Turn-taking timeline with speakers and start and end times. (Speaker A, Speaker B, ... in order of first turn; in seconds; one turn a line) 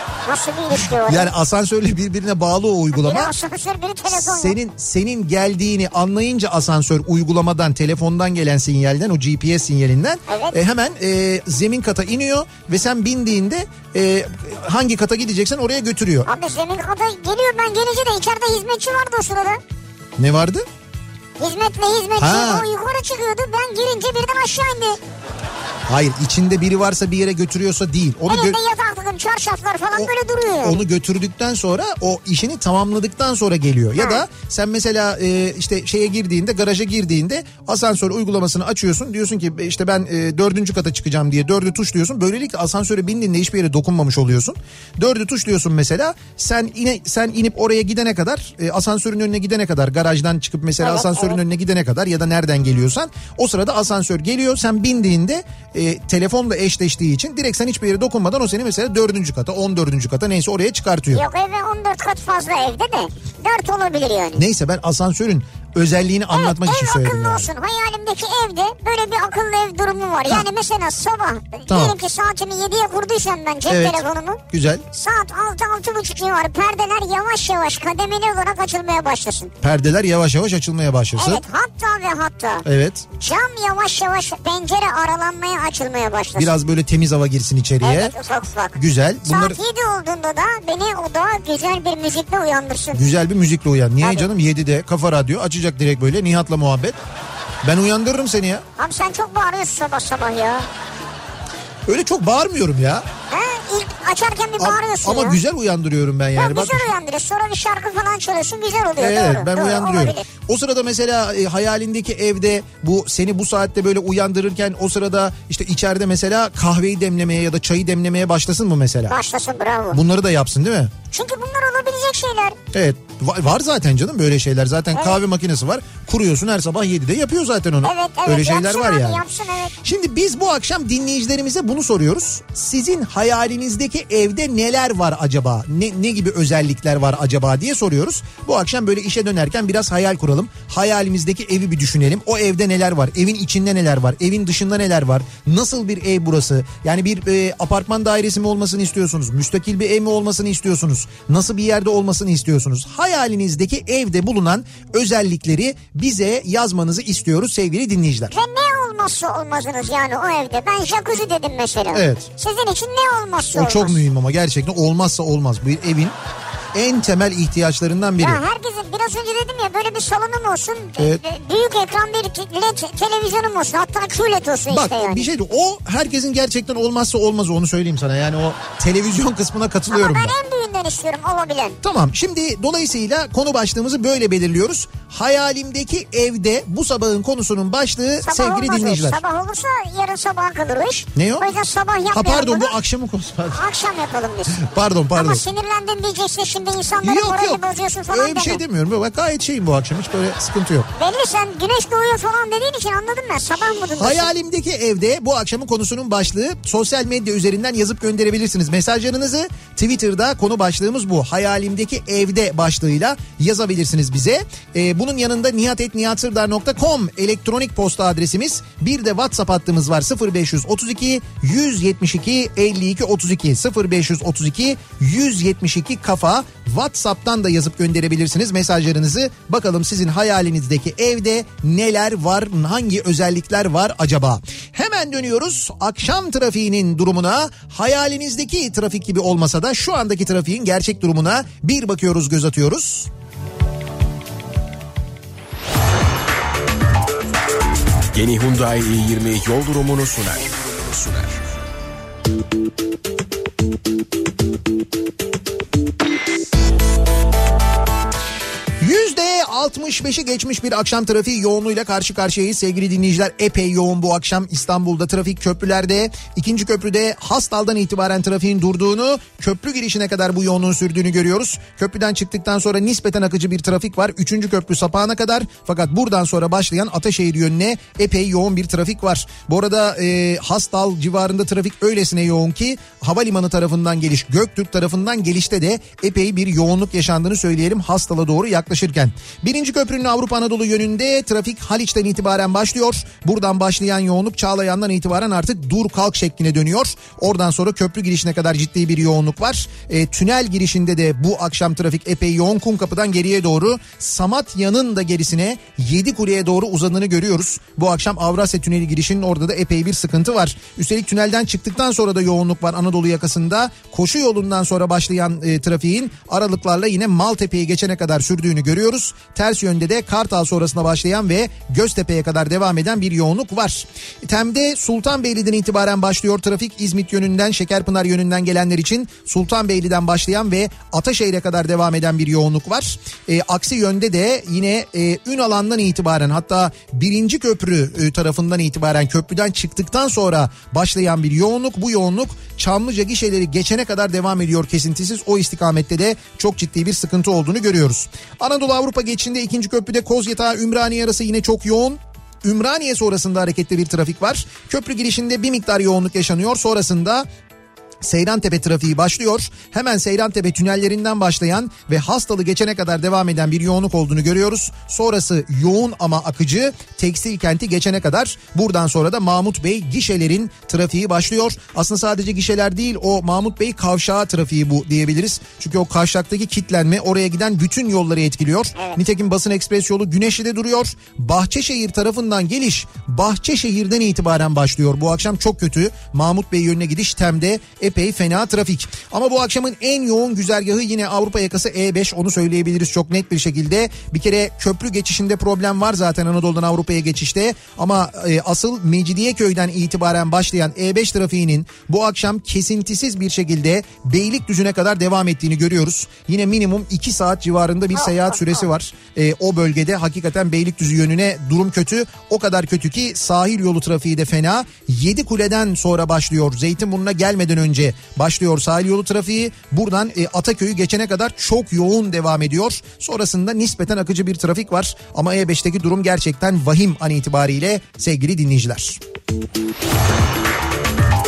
Speaker A: 0.3-1.3
Speaker B: 0.7-3.3
Speaker A: 2.9-4.5
Speaker B: 4.1-16.3
Speaker A: 10.3-10.6
Speaker A: 16.2-19.6
Speaker B: 20.2-20.6
Speaker A: 21.4-25.0
Speaker B: 22.2-22.7
Speaker B: 25.9-28.6
Speaker A: 28.3-30.8
Speaker B: 29.9-61.2
Speaker A: 34.0-34.2
Speaker A: 50.8-51.4
Speaker A: 61.1-64.4
Speaker B: 64.4-67.5
Speaker A: 66.3-74.4
Speaker B: 71.7-72.0
Speaker B: 73.7-74.8
Speaker A: 74.9-79.5
Speaker B: 79.6-81.4
Speaker A: 81.2-82.7
Speaker B: 82.6-83.0
Speaker A: 83.2-86.5
Speaker B: 86.3-88.1
Speaker A: 87.8-93.0
Speaker B: 88.7-89.6
Speaker B: 92.9-97.0
Speaker A: 94.0-94.2
Speaker B: 97.6-98.6
Speaker A: 98.8-100.7
Speaker B: 101.9-103.0
Speaker A: 103.3-105.4
Speaker B: 104.6-106.9
Speaker A: 106.3-110.2
Speaker B: 109.0-119.2
Speaker A: 119.1-120.0
Speaker B: 119.9-120.9
Speaker A: 121.1-122.6
Speaker B: 122.7-129.2
Speaker A: 127.8-129.7
Speaker B: 129.8-158.3
Speaker A: 158.3-164.0
Speaker B: 161.9-162.3
Speaker B: 163.5-166.2
Speaker B: 166.7-168.4
Speaker A: 168.2-175.3
Speaker B: 174.7-180.3
Speaker A: 179.9-181.8
Speaker B: 181.8-189.2
Speaker A: 188.2-192.7
Speaker B: 191.1-191.5
Speaker B: 192.1-193.6
Speaker A: 193.5-198.6
Speaker B: 194.5-195.4
Speaker B: 197.0-200.9
Speaker A: 200.9-204.3
Speaker B: 203.9-243.1
Speaker C: 248.1-251.4
Speaker B: 258.8-357.3
Speaker B: 358.0-429.0
Speaker A: 378.8-379.0
Speaker A: 407.9-408.6